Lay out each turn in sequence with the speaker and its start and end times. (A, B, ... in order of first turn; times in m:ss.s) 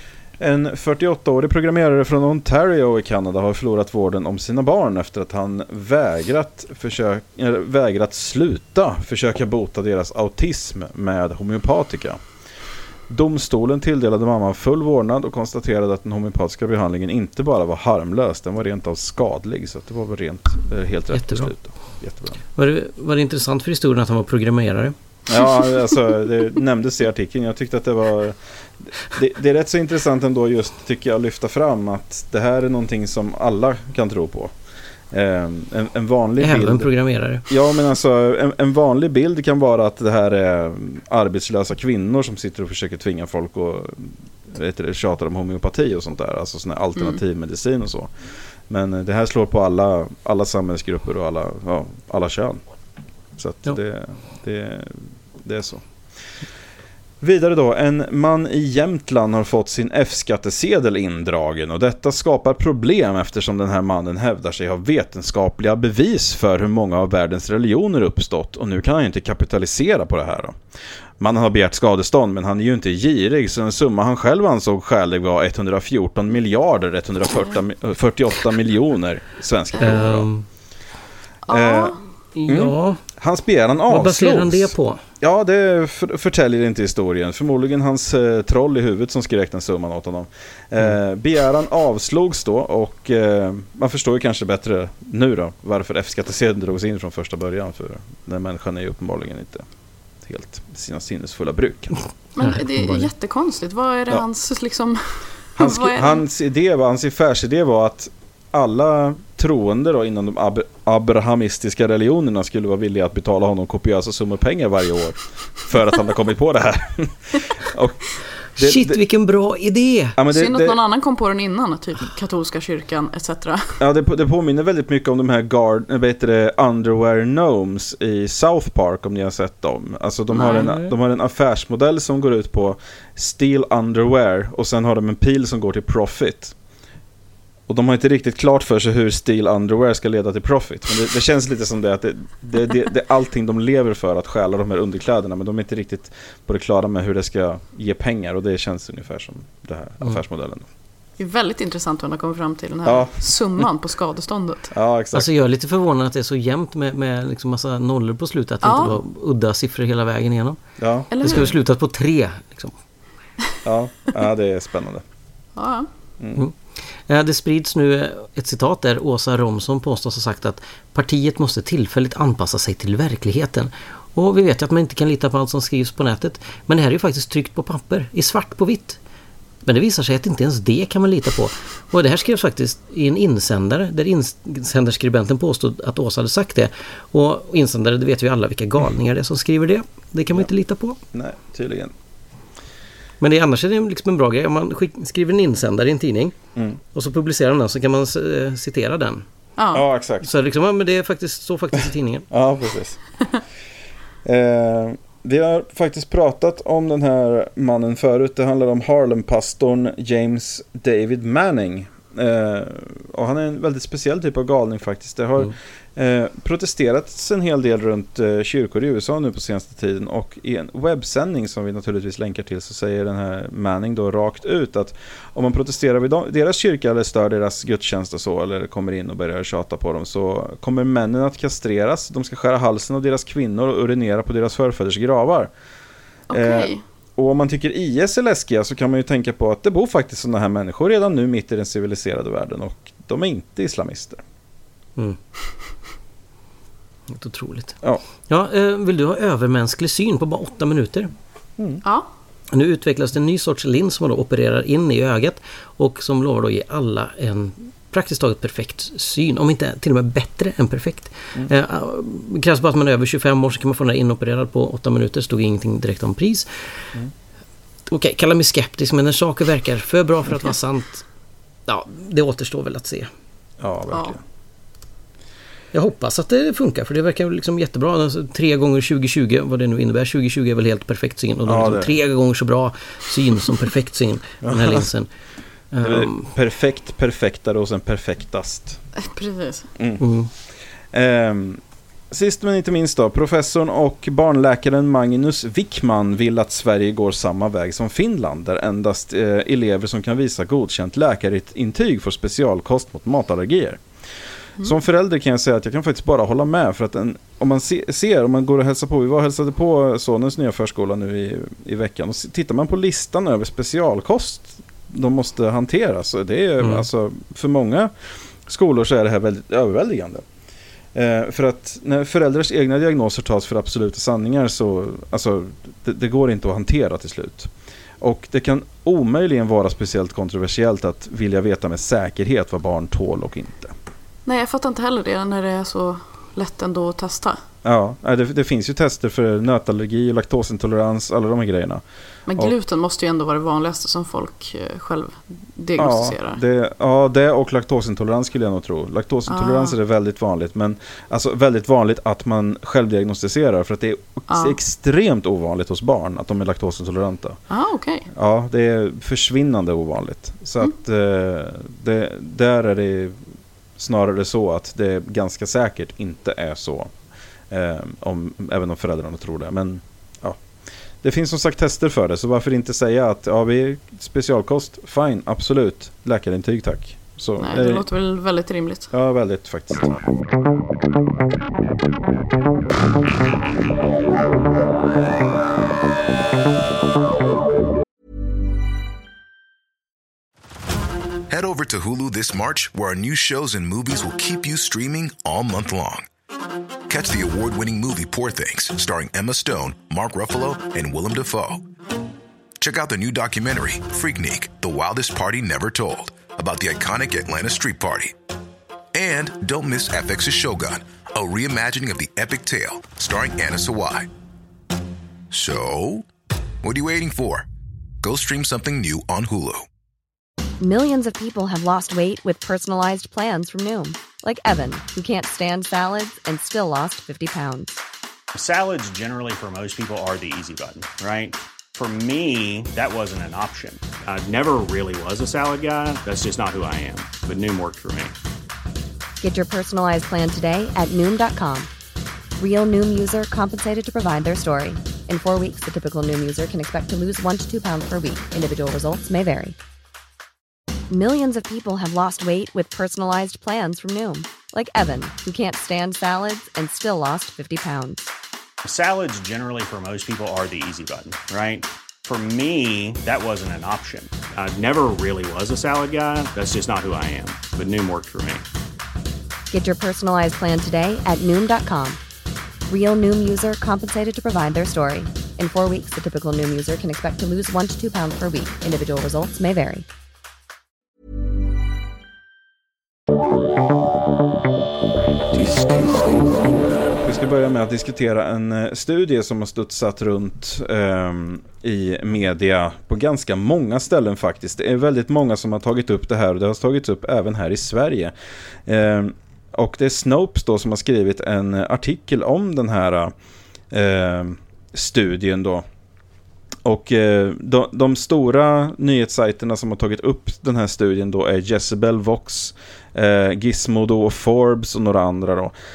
0:00.4-0:12.2 A
0:13.1-0:22.4 A
0:21.1-0:21.5 B
0:22.5-0:24.9 B
0:25.3-0:28.4 A
0:29.1-0:34.5 A
0:35.1-0:36.9 A
0:36.4-0:37.5 B
0:37.5-0:48.1 A
0:48.7-0:52.6 A
0:53.4-0:56.3 A
0:57.2-1:10.6 A
1:11.2-1:20.3 A
1:19.8-1:20.4 B
1:21.4-1:22.0 C
1:21.5-1:39.7 A
1:22.3-1:23.0 B
1:23.9-1:25.0 B
1:40.2-1:42.0 A
1:42.4-1:46.2 C
1:42.4-1:43.1 B
1:45.6-1:58.0 A
1:58.6-1:59.0 A
1:58.6-2:00.2 B
2:00.2-2:00.8 A
2:00.3-2:03.8 C
2:03.8-2:16.5 A
2:10.3-2:10.7 C
2:10.5-2:10.9 B
2:17.7-2:30.7 A
2:31.2-2:34.7 C
2:32.8-2:33.2 A
2:34.7-2:35.3 A
2:35.1-2:42.8 B
2:38.6-2:39.0 C
2:40.8-2:41.1 A
2:41.1-2:41.5 C
2:43.6-2:45.0 A
2:45.6-2:45.9 C
2:46.3-2:59.0 B
2:59.6-3:11.0 B
3:11.1-3:11.9 A
3:13.2-3:16.4 B
3:16.9-3:19.2 B
3:19.6-3:19.9 C
3:19.7-3:20.3 A
3:20.2-3:22.3 B
3:22.3-3:23.0 A
3:24.2-3:55.5 A
3:56.3-3:56.8 C
3:56.3-4:04.2 A
4:07.1-4:11.1 B
4:11.8-4:12.1 C
4:12.5-4:26.9 B
4:27.9-4:31.1 B
4:31.7-4:33.1 B
4:33.6-4:34.2 A
4:33.9-4:34.2 C
4:35.7-4:45.1 B
4:41.4-4:41.9 A
4:44.4-4:44.9 A
4:45.7-4:46.3 B
4:45.8-4:48.8 A
4:49.0-4:49.7 C
4:49.8-4:50.0 A
4:50.0-4:50.3 B
4:50.9-5:03.8 A
5:04.6-5:17.9 A
5:16.6-5:16.9 B
5:18.4-5:20.2 A
5:20.9-5:33.8 A
5:34.2-5:37.4 C
5:37.6-5:41.8 A
5:42.3-5:46.4 C
5:45.8-5:57.4 A
5:49.3-5:49.8 C
5:54.3-5:54.6 C
5:57.5-5:58.1 C
5:58.1-6:03.2 A
6:03.8-6:06.9 A
6:07.5-6:10.4 A
6:11.0-6:17.8 A
6:17.4-6:18.9 C
6:18.9-6:20.0 A
6:31.3-6:36.0 D
6:36.9-6:41.6 D
6:42.6-6:48.1 D
6:48.9-6:54.1 D
6:55.3-6:56.1 D
6:56.6-6:57.5 D
6:58.0-6:59.6 D
7:00.6-7:07.8 E
7:08.3-7:18.1 F
7:19.2-7:21.7 E
7:22.4-7:29.6 E
7:30.9-7:38.1 E
7:38.6-7:48.4 F
7:49.5-7:52.0 E
7:52.7-7:59.8 E
8:06.9-8:18.1 A
8:18.6-8:23.1 A
8:23.7-8:25.6 A
8:26.6-8:35.5 A